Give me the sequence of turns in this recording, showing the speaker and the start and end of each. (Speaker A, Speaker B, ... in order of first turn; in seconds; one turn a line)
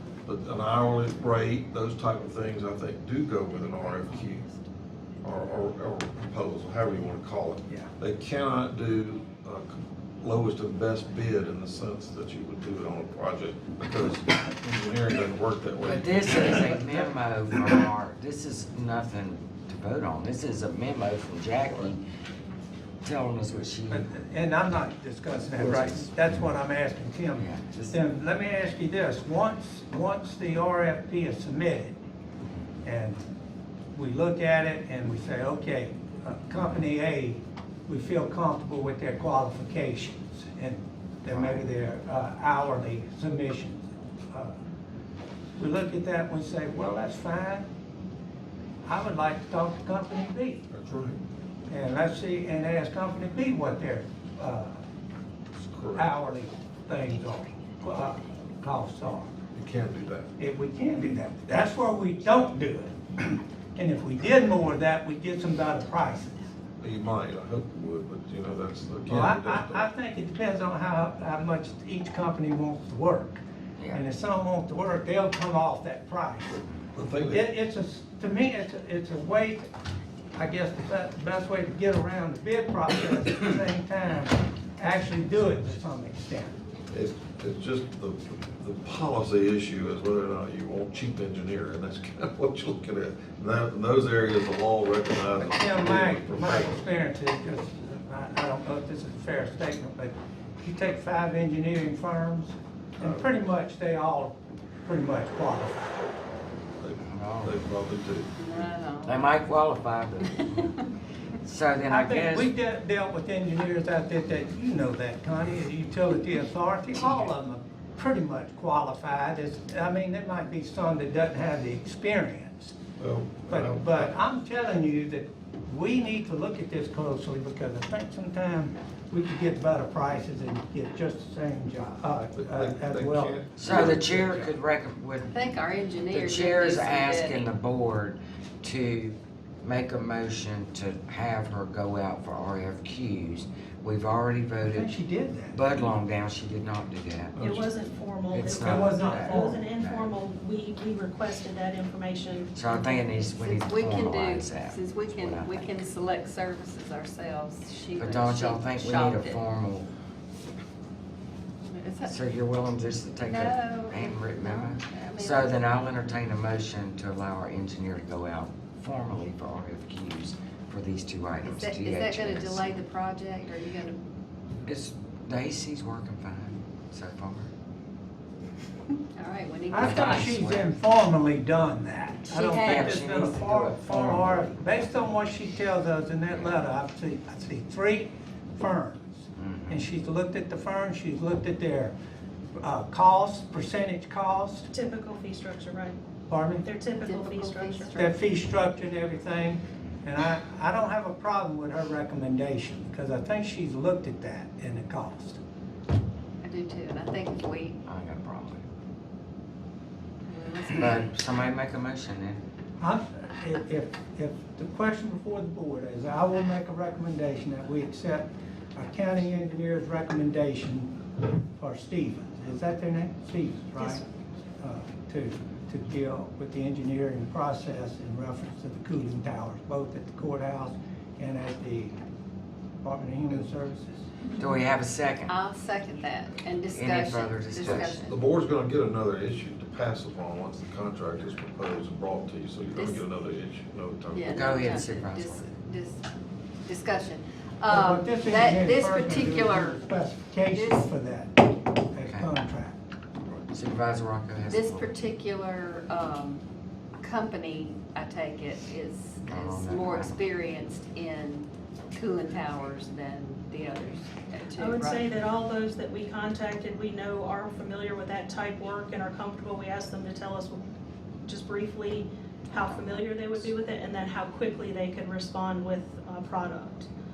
Speaker A: 0.2-4.5
Speaker A: 5.2-16.6
Speaker B: 15.8-22.0
Speaker B: 23.0-24.1
Speaker C: 23.9-31.9
Speaker B: 25.6-26.5
Speaker B: 27.4-28.0
Speaker C: 32.8-33.2
Speaker C: 33.9-44.5
Speaker B: 41.3-41.6
Speaker C: 45.6-47.7
Speaker C: 48.8-50.6
Speaker A: 50.7-51.2
Speaker C: 51.7-54.8
Speaker A: 55.6-56.1
Speaker C: 56.0-59.3
Speaker A: 59.5-60.3
Speaker C: 60.4-66.5
Speaker A: 66.8-69.9
Speaker C: 69.1-76.6
Speaker B: 73.8-74.0
Speaker A: 76.9-77.4
Speaker C: 77.2-79.7
Speaker C: 80.3-86.5
Speaker A: 86.9-96.8
Speaker C: 95.4-104.3
Speaker A: 103.0-103.2
Speaker C: 104.8-106.0
Speaker A: 106.8-108.3
Speaker B: 107.0-107.6
Speaker D: 108.4-109.3
Speaker B: 109.0-110.8
Speaker B: 111.4-112.5
Speaker C: 111.9-122.8
Speaker A: 123.0-124.0
Speaker C: 123.5-133.4
Speaker A: 132.3-134.5
Speaker B: 133.5-135.3
Speaker D: 135.2-137.5
Speaker B: 136.1-144.9
Speaker C: 144.7-145.6
Speaker B: 145.5-147.4
Speaker A: 147.4-147.7
Speaker E: 147.4-152.5
Speaker B: 148.3-150.2
Speaker C: 148.6-149.7
Speaker B: 152.5-155.7
Speaker D: 153.3-159.4
Speaker B: 158.0-159.9
Speaker D: 161.7-162.2
Speaker B: 162.1-172.8
Speaker D: 163.2-165.7
Speaker D: 171.4-174.0
Speaker B: 174.7-177.5
Speaker D: 179.2-180.4
Speaker C: 179.7-191.9
Speaker B: 179.8-180.7
Speaker D: 182.3-183.1
Speaker B: 182.6-184.8
Speaker B: 186.3-186.6
Speaker B: 189.4-189.9
Speaker C: 192.6-194.7
Speaker E: 194.7-196.0
Speaker C: 196.3-196.7
Speaker E: 196.6-198.0
Speaker D: 197.0-198.1
Speaker C: 198.0-205.4
Speaker D: 206.4-207.8
Speaker B: 207.8-208.6
Speaker D: 210.3-211.0
Speaker B: 210.8-212.4
Speaker C: 212.8-220.9
Speaker C: 221.6-224.0
Speaker C: 224.6-231.9
Speaker C: 232.8-234.0
Speaker B: 234.4-235.3
Speaker D: 235.2-238.2
Speaker B: 236.7-238.0
Speaker A: 237.6-244.4
Speaker D: 242.7-243.0
Speaker D: 244.1-246.1
Speaker B: 244.3-245.5
Speaker D: 246.6-249.8
Speaker C: 247.7-252.8
Speaker D: 250.5-250.9
Speaker B: 253.5-254.9
Speaker D: 254.4-256.4
Speaker D: 257.0-265.0
Speaker B: 259.2-260.2
Speaker E: 264.5-270.6
Speaker E: 271.2-276.9